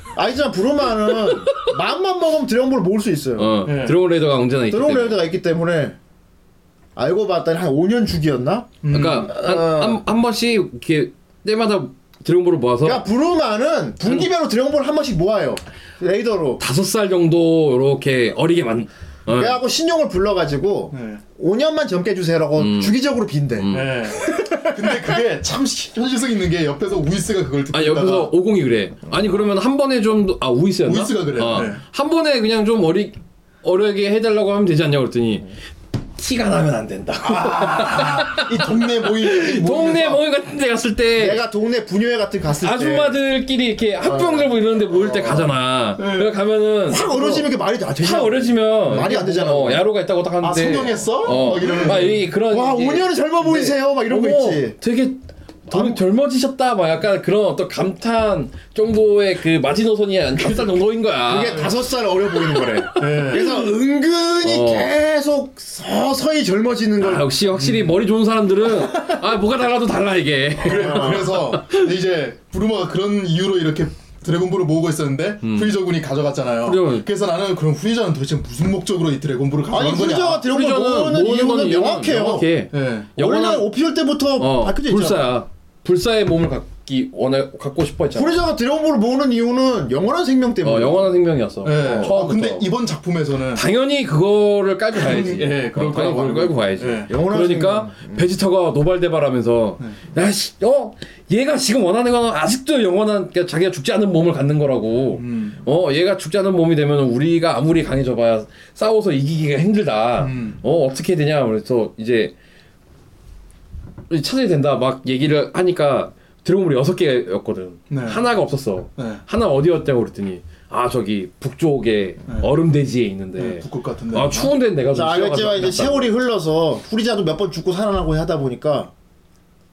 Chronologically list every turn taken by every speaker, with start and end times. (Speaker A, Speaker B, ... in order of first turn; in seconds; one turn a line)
Speaker A: 0.1-3.6
Speaker B: 3.4-5.2
Speaker C: 3.6-4.0
Speaker A: 4.7-6.0
Speaker A: 7.0-10.0
Speaker C: 8.8-9.3
Speaker B: 8.9-13.1
Speaker A: 12.8-16.6
Speaker B: 16.6-19.6
Speaker A: 19.3-25.2
Speaker C: 20.9-21.2
Speaker B: 22.6-23.0
Speaker B: 23.6-24.1
Speaker C: 23.7-28.3
Speaker B: 27.7-35.5
Speaker C: 30.8-31.8
Speaker B: 36.2-41.4
Speaker C: 37.2-40.2
Speaker A: 41.2-43.2
Speaker B: 42.6-47.5
Speaker A: 44.0-45.5
Speaker C: 46.0-46.3
Speaker A: 46.9-49.9
Speaker B: 48.0-61.7
Speaker C: 50.4-52.2
Speaker A: 51.3-54.8
Speaker A: 55.7-56.0
Speaker A: 61.3-67.3
Speaker B: 62.6-63.6
Speaker C: 63.0-63.5
Speaker B: 64.4-64.9
Speaker B: 67.0-71.8
Speaker C: 67.5-67.9
Speaker C: 70.6-80.5
Speaker A: 70.7-71.4
Speaker B: 75.4-75.8
Speaker B: 76.6-77.1
Speaker A: 79.7-82.5
Speaker B: 80.4-83.7
Speaker C: 82.7-83.1
Speaker A: 83.2-85.4
Speaker B: 84.4-88.5
Speaker A: 88.1-91.2
Speaker B: 90.6-92.7
Speaker C: 91.6-93.7
Speaker A: 91.7-92.2
Speaker B: 93.5-112.3
Speaker C: 95.0-97.1
Speaker A: 97.1-98.3
Speaker C: 105.2-105.6
Speaker C: 110.2-110.6
Speaker B: 114.1-126.1
Speaker C: 117.9-118.2
Speaker C: 119.0-119.2
Speaker C: 123.4-124.5
Speaker A: 124.9-128.9